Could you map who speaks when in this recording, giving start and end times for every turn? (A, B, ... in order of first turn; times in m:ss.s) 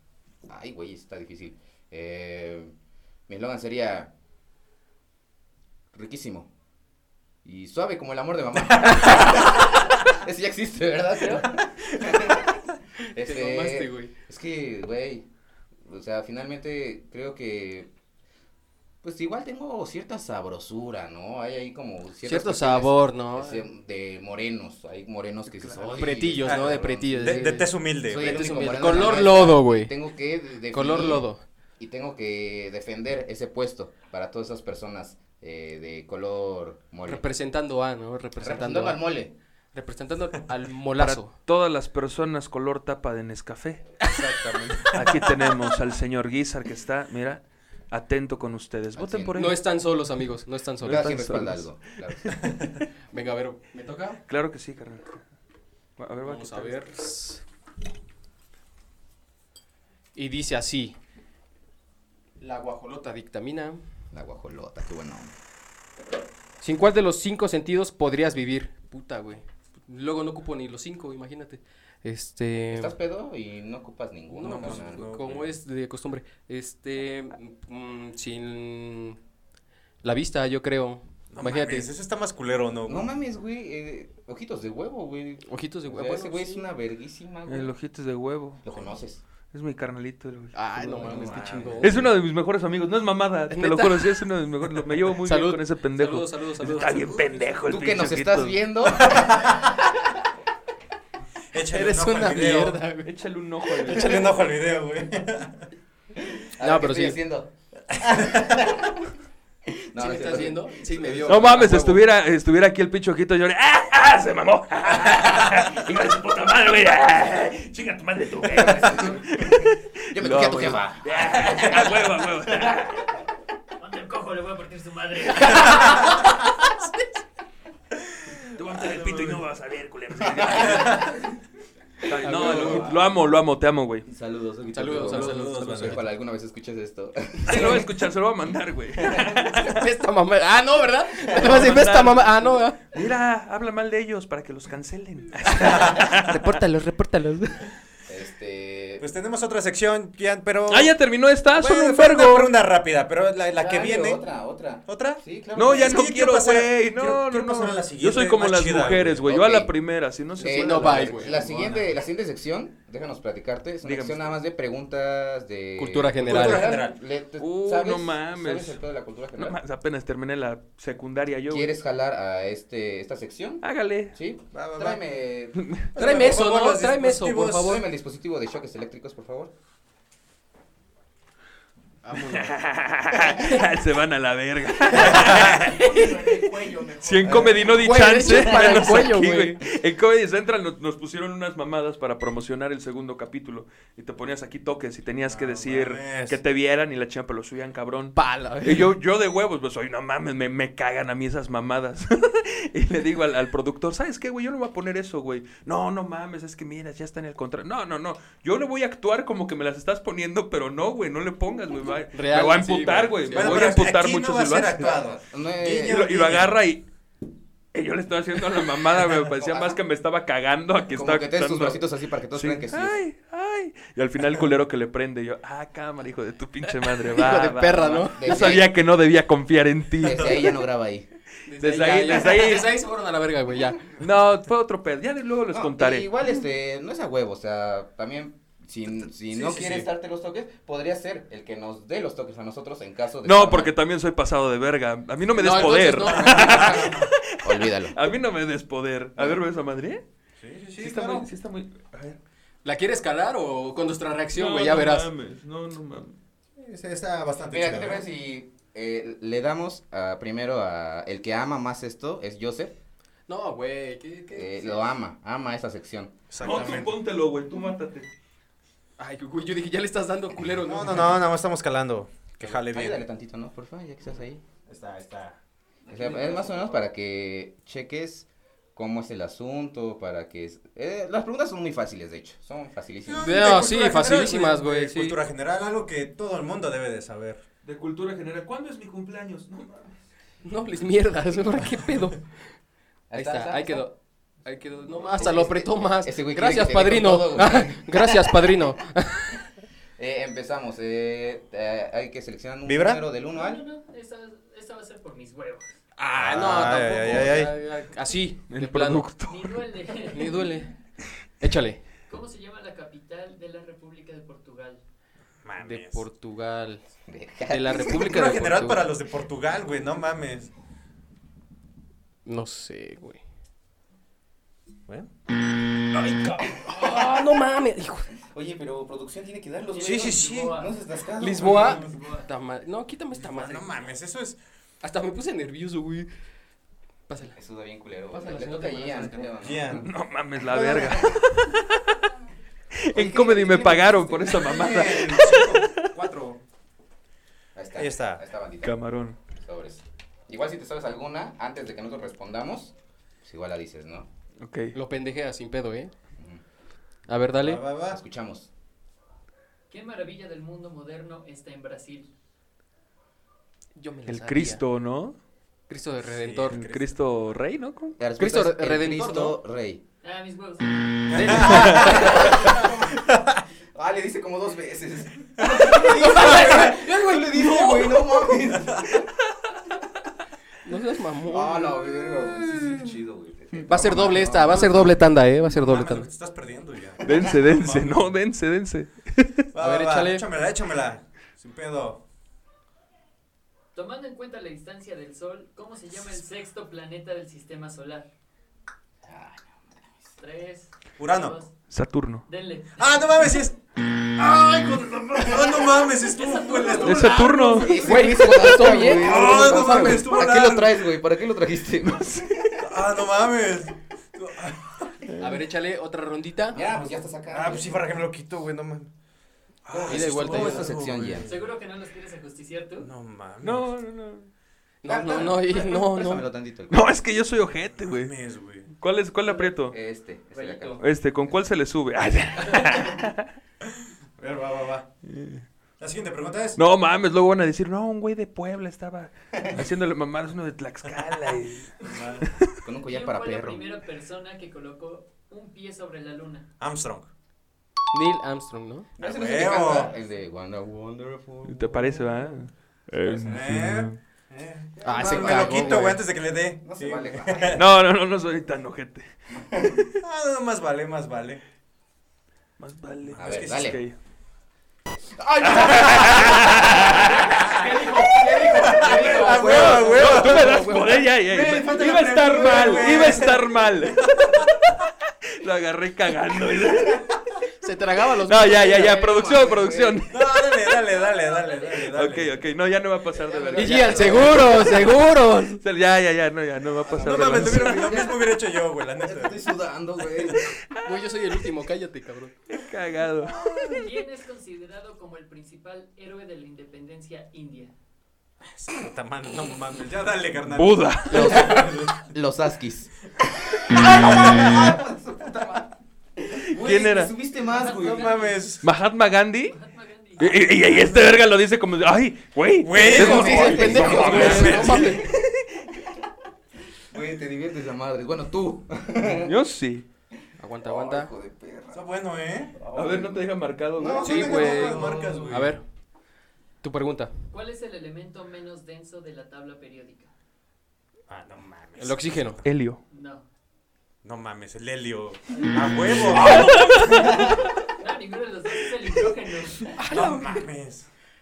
0:00.4-0:02.7 A
0:03.3-0:04.1 A
0:05.9-0:06.5 A
0:07.4-0:12.6 A
0:13.1-0:14.1 B
0:13.1-0:15.2 A
0:15.8-0:17.9 A
0:19.0-0:31.3 A
0:22.2-0:23.6 B
0:25.5-0:26.2 C
0:26.0-0:29.9 B
0:26.4-0:28.4 D
0:30.7-0:31.4 B
0:31.8-0:37.2 A
0:37.0-0:39.0 B
0:38.4-0:39.3 A
0:39.7-0:41.3 B
0:41.0-0:44.0 C
0:44.0-0:44.9 B
0:44.9-0:49.6 C
0:49.0-0:49.5 A
0:49.4-0:51.3 B
0:50.8-0:51.7 C
0:50.8-0:52.4 A
0:53.1-0:54.2 B
0:54.3-0:55.2 C
0:56.0-0:56.8 C
0:56.2-0:57.4 B
1:00.2-1:00.9 B
1:02.4-1:03.8 B
1:04.1-1:05.3 A
1:06.6-1:12.9 B
1:12.7-1:15.2 A
1:14.3-1:19.2 B
1:14.4-1:15.5 D
1:20.0-1:21.9 B
1:21.3-1:23.1 D
1:22.8-1:27.7 A
1:25.4-1:26.6 B
1:27.5-1:28.6 C
1:28.6-1:29.2 A
1:29.5-1:31.2 C
1:30.5-1:32.0 B
1:30.8-1:32.1 A
1:31.8-1:38.6 C
1:33.5-1:34.2 B
1:35.2-1:37.3 B
1:37.7-1:39.5 A
1:38.9-1:39.7 D
1:41.5-1:42.8 D
1:41.7-1:43.1 B
1:43.0-1:44.3 C
1:43.8-1:45.6 D
1:46.2-1:47.5 A
1:46.6-1:47.2 B
1:47.9-1:48.8 D
1:48.2-1:48.8 A
1:49.7-1:51.8 A
1:49.9-1:52.0 B
1:51.2-2:03.1 C
1:58.4-2:02.1 A
2:03.8-2:07.0 E
2:08.5-2:11.1 C
2:08.6-2:09.4 D
2:10.4-2:11.0 D
2:12.0-2:14.0 C
2:12.2-2:12.9 B
2:12.4-2:13.1 A
2:14.0-2:17.9 A
2:14.7-2:16.1 B
2:14.9-2:16.0 D
2:17.4-2:19.8 C
2:19.2-2:22.8 B
2:21.3-2:26.4 C
2:25.5-2:27.7 B
2:28.1-2:29.1 A
2:29.0-2:30.9 D
2:30.7-2:32.5 C
2:31.5-2:34.2 D
2:33.5-2:36.2 A
2:34.9-2:39.2 D
2:35.5-2:41.4 C
2:39.2-2:39.7 A
2:40.4-2:41.4 B
2:40.4-2:49.6 A
2:41.3-2:41.9 D
2:43.8-2:44.4 C
2:45.8-2:46.8 B
2:46.2-2:47.0 D
2:47.4-2:48.8 C
2:49.3-2:51.7 C
2:51.5-2:55.6 A
2:53.6-2:54.1 C
2:54.5-2:55.0 D
2:55.6-2:55.9 C
2:55.9-2:57.8 D
2:56.0-2:57.8 B
2:57.6-2:59.5 A
3:02.0-3:02.6 B
3:02.2-3:06.4 C
3:03.1-3:03.7 B
3:05.0-3:05.7 D
3:05.3-3:08.9 A
3:07.0-3:34.9 C
3:07.2-3:07.5 D
3:07.6-3:09.6 B
3:15.3-3:16.4 D
3:18.2-3:18.9 B
3:32.1-3:33.8 B
3:33.3-3:36.4 D
3:34.8-3:36.5 A
3:35.8-3:36.8 C
3:37.7-3:50.4 C
3:39.2-3:39.8 A
3:40.9-3:43.0 A
3:46.7-3:48.4 B
3:48.1-3:48.7 A
3:50.0-3:51.1 A
3:50.0-3:50.4 D
3:51.4-3:53.9 B
3:51.6-3:52.8 C
3:54.0-3:56.1 C
3:55.5-4:03.7 A
3:59.3-3:59.9 D
4:03.2-4:10.0 C
4:05.4-4:06.9 B
4:06.4-4:08.0 A
4:06.5-4:07.1 D
4:10.4-4:11.3 D
4:10.8-4:12.2 C
4:12.6-4:15.1 B
4:14.3-4:16.2 C
4:16.6-4:18.0 D
4:17.5-4:22.8 A
4:23.3-4:24.9 B
4:24.3-4:26.7 A
4:26.3-4:27.0 D
4:26.4-4:28.1 C
4:29.0-4:31.2 B
4:30.6-4:33.0 D
4:32.4-4:34.4 A
4:34.7-4:35.4 D
4:35.9-4:43.6 A
4:35.9-4:36.7 D
4:43.1-4:47.4 D
4:43.2-4:45.2 B
4:47.6-4:49.9 C
4:50.4-4:52.3 B
4:53.1-4:53.9 A
4:53.1-4:53.9 B
4:54.4-4:59.4 B
4:55.1-4:58.7 A
5:00.0-5:03.6 A
5:02.6-5:03.0 D
5:03.2-5:05.8 E
5:06.0-5:09.1 B
5:06.1-5:07.6 D
5:08.5-5:09.6 C
5:09.3-5:10.6 E
5:10.0-5:10.7 B
5:11.4-5:11.8 B
5:12.1-5:14.8 E
5:15.4-5:16.0 D
5:15.6-5:16.8 B
5:17.1-5:18.1 A
5:17.5-5:18.9 B
5:17.9-5:20.5 D
5:22.2-5:23.2 B
5:26.0-5:28.1 B
5:26.6-5:27.0 A
5:28.2-5:31.9 A
5:29.7-5:30.7 E
5:29.8-5:30.5 D
5:31.2-5:33.7 B
5:31.4-5:31.9 D
5:31.5-5:32.3 E
5:33.2-5:34.4 D
5:34.8-5:36.1 B
5:37.1-5:37.4 B
5:37.3-5:39.9 A
5:38.1-5:39.4 B
5:39.4-5:39.9 D
5:39.8-5:41.9 C
5:40.5-5:41.0 D
5:40.7-5:41.1 A
5:42.8-5:45.8 C
5:42.9-5:45.4 A
5:44.3-5:46.4 D
5:47.5-5:48.8 A
5:47.8-5:48.2 D
5:48.6-5:49.2 C
5:49.4-5:54.1 A
5:54.4-5:54.8 C
5:54.7-5:55.9 B
5:57.1-5:57.6 B
5:57.4-5:58.0 D
5:57.9-5:58.5 A
5:59.7-6:02.1 E
6:03.8-6:04.6 B
6:04.0-6:05.2 C
6:05.7-6:06.6 B
6:06.0-6:06.9 D
6:06.5-6:08.0 C
6:08.0-6:09.8 A
6:08.2-6:09.4 B
6:10.0-6:11.3 E
6:11.1-6:13.4 D
6:11.1-6:12.4 B
6:11.3-6:12.0 C
6:11.4-6:13.0 A
6:13.7-6:19.1 A
6:15.4-6:16.8 D
6:15.4-6:18.4 B
6:20.6-6:21.8 B
6:21.3-6:24.9 A
6:22.5-6:22.8 D
6:23.6-6:26.1 B
6:25.5-6:28.1 D
6:27.0-6:29.5 C
6:29.5-6:32.0 D
6:29.6-6:30.2 B
6:33.7-6:38.1 E
6:39.0-6:39.9 A
6:40.2-6:41.5 E
6:41.0-6:41.4 D
6:41.7-6:42.2 C
6:42.3-6:43.3 E
6:42.8-6:47.4 D
6:45.6-6:47.6 E
6:46.8-6:47.9 C
6:47.5-6:50.1 B
6:47.6-6:52.8 A
6:48.7-6:50.8 D
6:51.9-6:52.4 C
6:52.6-6:55.1 D
6:55.2-6:56.6 B
6:56.5-6:57.8 A
6:56.6-6:58.9 D
6:59.6-7:01.3 D
6:59.7-7:01.3 A
6:59.9-7:00.7 B
7:01.2-7:02.9 E
7:02.8-7:03.7 D
7:03.4-7:04.3 C
7:04.8-7:06.3 B
7:04.8-7:06.8 A
7:06.7-7:08.1 C
7:07.9-7:08.7 D
7:08.7-7:09.8 C
7:09.7-7:10.8 A
7:10.3-7:10.8 E
7:10.8-7:13.3 C
7:14.2-7:14.9 D
7:15.0-7:15.4 C
7:15.8-7:16.6 D
7:16.6-7:21.8 C
7:21.8-7:22.3 D
7:22.6-7:23.7 A
7:22.8-7:26.5 E
7:26.6-7:27.1 D
7:27.9-7:28.9 B
7:29.0-7:32.2 A
7:29.0-7:29.9 D
7:31.4-7:34.0 C
7:33.0-7:37.6 D
7:34.8-7:36.0 A
7:34.8-7:36.0 B
7:36.6-7:37.6 A
7:37.5-7:39.1 C
7:39.3-7:39.8 A
7:39.6-7:39.9 C
7:40.0-7:41.4 D
7:42.6-7:44.0 C
7:43.1-7:43.8 D
7:43.1-7:43.8 A
7:45.2-7:50.2 A
7:45.4-7:47.5 C
7:47.3-7:51.1 B
7:48.4-7:50.6 D
7:48.9-7:54.5 C
7:51.2-7:54.4 D
7:55.3-7:57.0 C
7:57.6-7:59.4 B
7:58.2-8:00.2 C
7:58.7-8:00.1 A
8:00.1-8:02.4 D
8:01.9-8:05.0 C
8:03.1-8:04.8 A
8:03.6-8:05.6 B
8:05.6-8:08.1 C
8:06.9-8:08.2 A
8:06.9-8:09.4 D
8:09.0-8:10.4 A
8:10.4-8:11.1 C
8:10.8-8:12.3 B
8:12.5-8:13.9 C
8:13.7-8:17.7 E
8:18.5-8:22.0 D
8:20.5-8:21.6 C
8:21.1-8:25.6 A
8:21.2-8:21.5 B
8:24.1-8:24.3 D
8:26.2-8:28.1 A
8:26.5-8:27.1 C
8:27.4-8:28.6 E
8:27.7-8:28.6 D
8:28.6-8:29.5 C
8:29.5-8:30.4 E
8:30.2-8:34.8 C
8:30.3-8:31.2 D
8:32.6-8:35.0 D
8:32.7-8:35.8 A
8:32.8-8:35.1 B
8:36.9-8:39.3 A
8:39.1-8:39.8 C
8:40.4-8:41.1 B
8:40.6-8:41.8 A
8:41.7-8:42.6 D
8:42.5-8:45.5 A
8:42.7-8:44.3 C
8:43.9-8:45.6 D
8:44.0-8:45.6 B
8:46.6-8:47.1 B
8:47.3-8:50.1 E
8:51.1-8:52.4 D
8:51.8-8:52.4 B
8:52.4-8:52.8 C
8:52.9-8:53.2 E
8:54.0-8:56.6 D
8:55.3-8:55.7 E
8:55.9-8:57.4 C
8:57.8-8:59.7 E
8:59.8-9:00.5 B
8:59.9-9:00.8 D